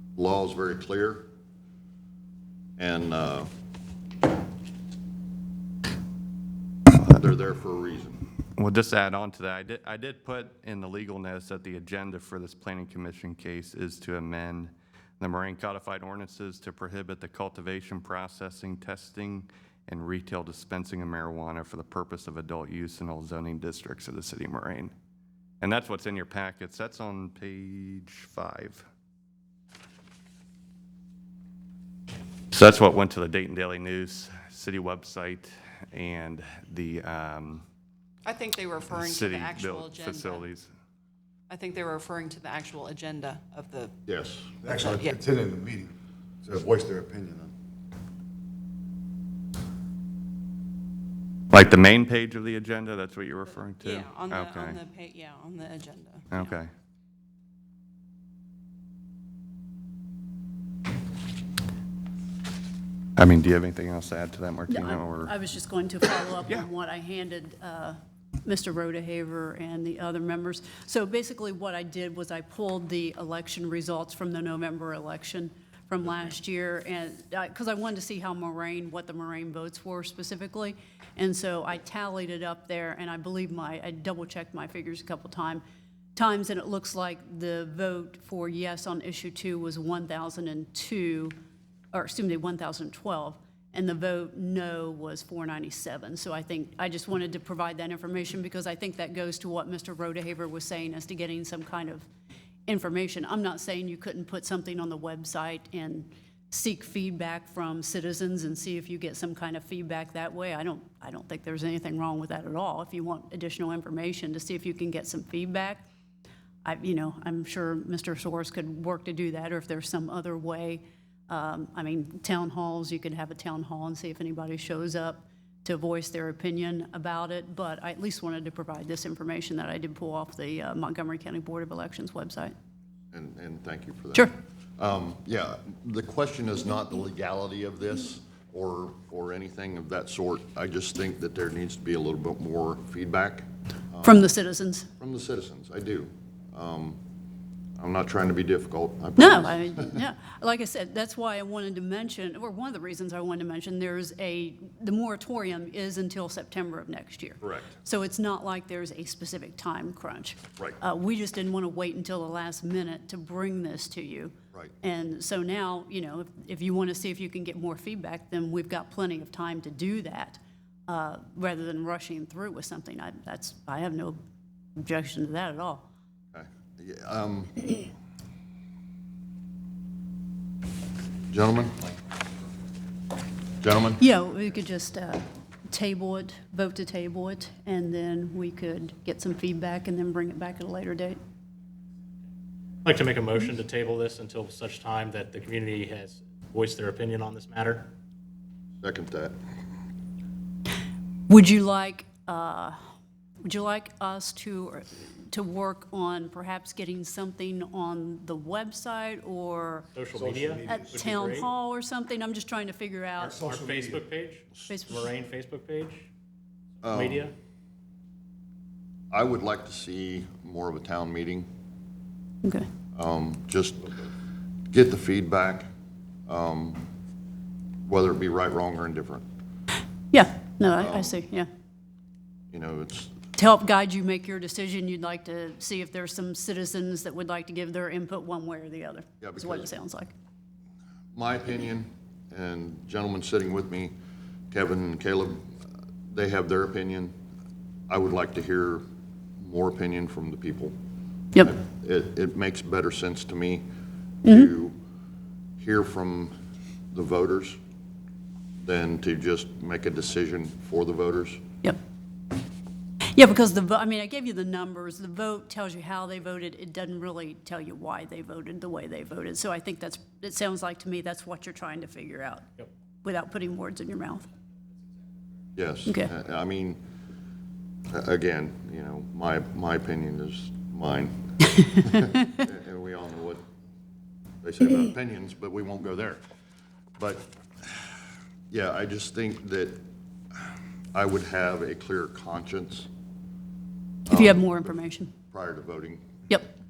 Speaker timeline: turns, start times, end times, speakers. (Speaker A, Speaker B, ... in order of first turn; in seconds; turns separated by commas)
Speaker A: 0.2-1.3, Speaker A: 2.8-3.5, Speaker A: 7.0-8.2, Speaker B: 8.6-24.9, Speaker B: 25.6-28.8, Speaker B: 32.5-37.6, Speaker C: 38.3-40.4, Speaker B: 38.9-40.7, Speaker C: 41.5-43.9, Speaker A: 44.0-44.5, Speaker D: 44.6-47.5, Speaker B: 51.5-54.8, Speaker C: 53.8-56.5, Speaker B: 56.3-56.7, Speaker B: 63.2-65.3, Speaker E: 64.7-85.6, Speaker E: 86.2-91.3, Speaker E: 91.9-102.1, Speaker E: 102.7-115.9, Speaker E: 116.6-132.5, Speaker A: 133.1-144.3, Speaker E: 144.0-144.9, Speaker A: 145.0-147.0, Speaker A: 147.8-150.0, Speaker E: 149.2-174.2, Speaker A: 157.4-157.7, Speaker E: 174.8-175.9, Speaker A: 176.3-177.9, Speaker A: 181.3-181.9, Speaker A: 183.6-184.0, Speaker E: 184.0-191.2, Speaker F: 192.8-197.8, Speaker A: 198.8-199.3, Speaker E: 201.3-202.8, Speaker E: 203.4-209.9, Speaker F: 210.0-211.3, Speaker D: 210.1-211.4, Speaker E: 210.7-213.5, Speaker D: 213.2-214.1, Speaker F: 213.5-214.4, Speaker E: 214.7-215.1, Speaker F: 215.0-215.9, Speaker A: 216.8-217.3, Speaker F: 216.9-217.3, Speaker A: 219.1-221.5, Speaker E: 222.4-222.7, Speaker A: 222.9-223.9, Speaker A: 224.7-225.7, Speaker A: 226.3-226.8, Speaker A: 227.9-229.2, Speaker E: 230.1-231.5, Speaker A: 230.8-231.2, Speaker A: 232.5-233.2, Speaker E: 233.3-240.1, Speaker A: 239.2-239.7, Speaker A: 241.1-243.9, Speaker A: 244.5-245.4, Speaker A: 246.1-247.1, Speaker A: 247.9-248.8, Speaker A: 249.4-250.7, Speaker A: 251.4-253.6, Speaker A: 254.2-254.8, Speaker A: 255.6-256.3, Speaker A: 256.9-257.6, Speaker A: 258.6-261.4, Speaker E: 263.1-272.5, Speaker E: 273.0-274.3, Speaker A: 275.6-276.8, Speaker A: 277.9-283.4, Speaker A: 284.4-286.2, Speaker A: 287.0-287.8, Speaker A: 288.5-289.8, Speaker A: 290.9-292.9, Speaker A: 294.1-294.8, Speaker E: 294.1-295.1, Speaker A: 295.3-296.1